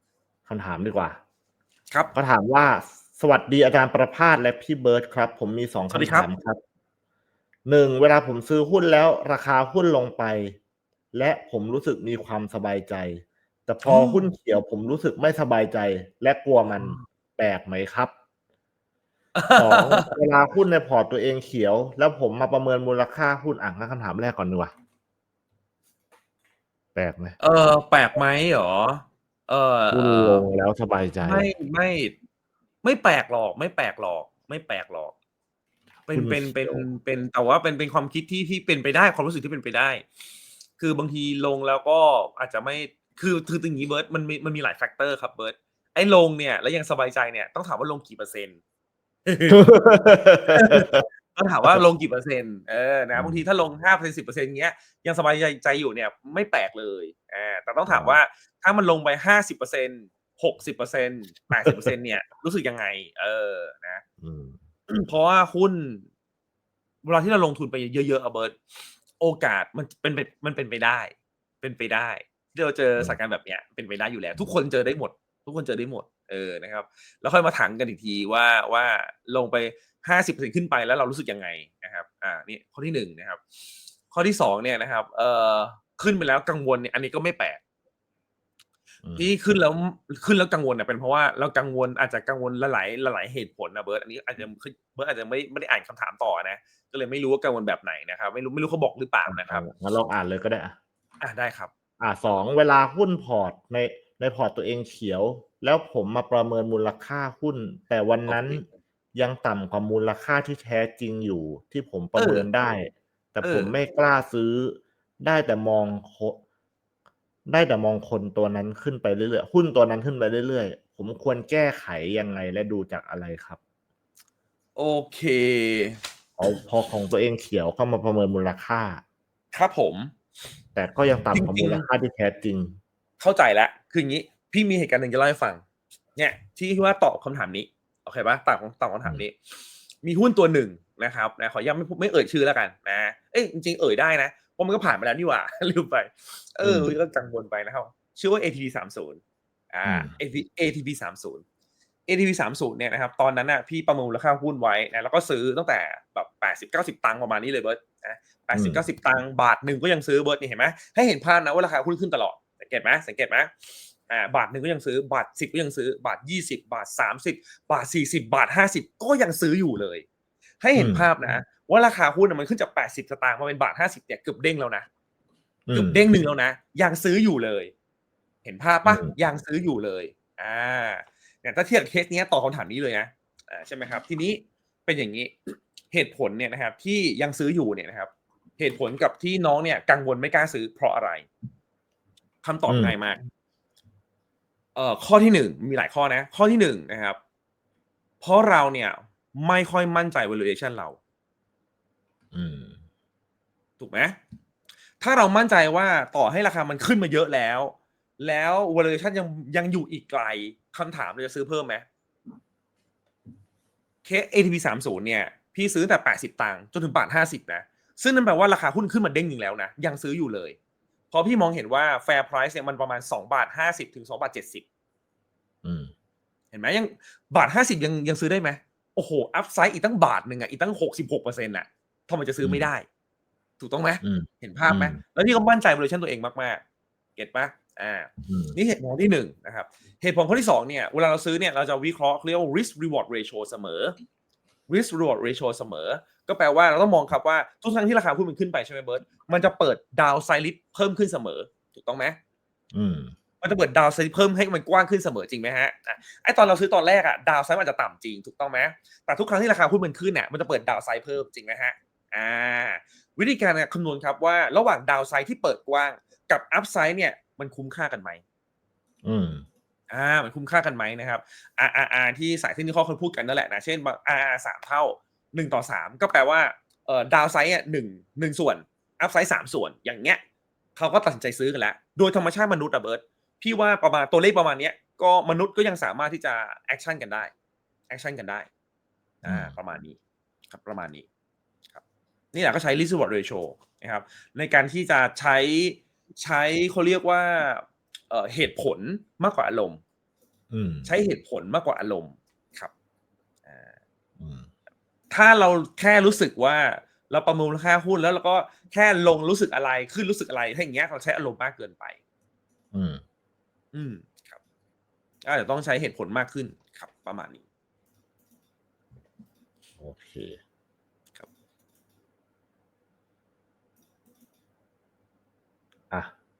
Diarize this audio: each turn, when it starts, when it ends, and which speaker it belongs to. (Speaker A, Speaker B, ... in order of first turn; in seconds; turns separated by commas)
Speaker A: 0.5-1.2, Speaker A: 2.1-6.6, Speaker B: 5.9-6.3, Speaker A: 7.6-10.6, Speaker A: 11.1-18.1, Speaker B: 13.8-14.3, Speaker B: 16.7-17.0, Speaker B: 19.3-20.1, Speaker A: 19.6-24.7, Speaker A: 26.9-27.4, Speaker B: 27.4-30.4, Speaker A: 29.9-31.5, Speaker B: 31.2-32.1, Speaker B: 32.8-35.1, Speaker B: 36.1-40.0, Speaker A: 36.1-36.9, Speaker B: 40.8-48.6, Speaker B: 49.2-64.0, Speaker A: 49.5-51.0, Speaker A: 53.1-53.4, Speaker A: 57.9-58.2, Speaker A: 64.2-64.6, Speaker B: 64.9-66.1, Speaker B: 67.0-68.6, Speaker B: 69.2-83.4, Speaker B: 84.1-87.6, Speaker A: 89.0-89.3, Speaker B: 89.2-99.7, Speaker A: 99.3-100.8, Speaker B: 101.2-101.7, Speaker A: 102.0-108.6, Speaker B: 108.2-108.6, Speaker A: 109.1-116.4, Speaker B: 112.1-112.5, Speaker B: 113.4-113.7, Speaker A: 117.5-123.6, Speaker B: 124.8-126.0, Speaker A: 126.4-129.0, Speaker B: 129.5-130.1, Speaker A: 130.7-132.8, Speaker B: 131.3-131.8, Speaker B: 133.2-135.6, Speaker B: 136.2-149.2, Speaker A: 146.6-146.9, Speaker B: 149.7-151.4, Speaker A: 149.8-150.1, Speaker B: 152.1-163.5, Speaker A: 158.5-158.8, Speaker B: 164.1-170.1, Speaker B: 170.6-174.9, Speaker A: 170.8-171.1, Speaker A: 175.7-176.1, Speaker B: 175.7-177.7, Speaker B: 178.4-191.3, Speaker A: 178.8-179.1, Speaker B: 192.4-193.2, Speaker A: 192.7-192.9, Speaker B: 194.7-197.2, Speaker B: 198.2-201.0, Speaker A: 202.3-202.8, Speaker B: 203.8-204.2, Speaker B: 205.0-211.8, Speaker B: 214.0-220.6, Speaker B: 221.1-224.6, Speaker A: 225.6-225.9, Speaker B: 226.5-232.9, Speaker A: 232.4-232.7, Speaker B: 233.6-236.6, Speaker A: 234.0-235.0, Speaker B: 237.2-243.9, Speaker A: 238.2-238.6, Speaker B: 244.7-252.2, Speaker A: 252.7-253.1, Speaker B: 253.4-268.2, Speaker A: 269.0-269.4, Speaker B: 269.9-280.2, Speaker B: 280.8-287.3, Speaker B: 287.9-288.5, Speaker B: 289.2-291.0, Speaker A: 289.2-289.5, Speaker B: 291.7-299.8, Speaker A: 300.5-300.9, Speaker B: 300.8-302.7, Speaker B: 303.4-303.7, Speaker A: 304.2-304.5, Speaker B: 305.1-312.0, Speaker A: 312.7-313.0, Speaker B: 313.7-314.4, Speaker B: 315.2-317.4, Speaker A: 319.8-320.4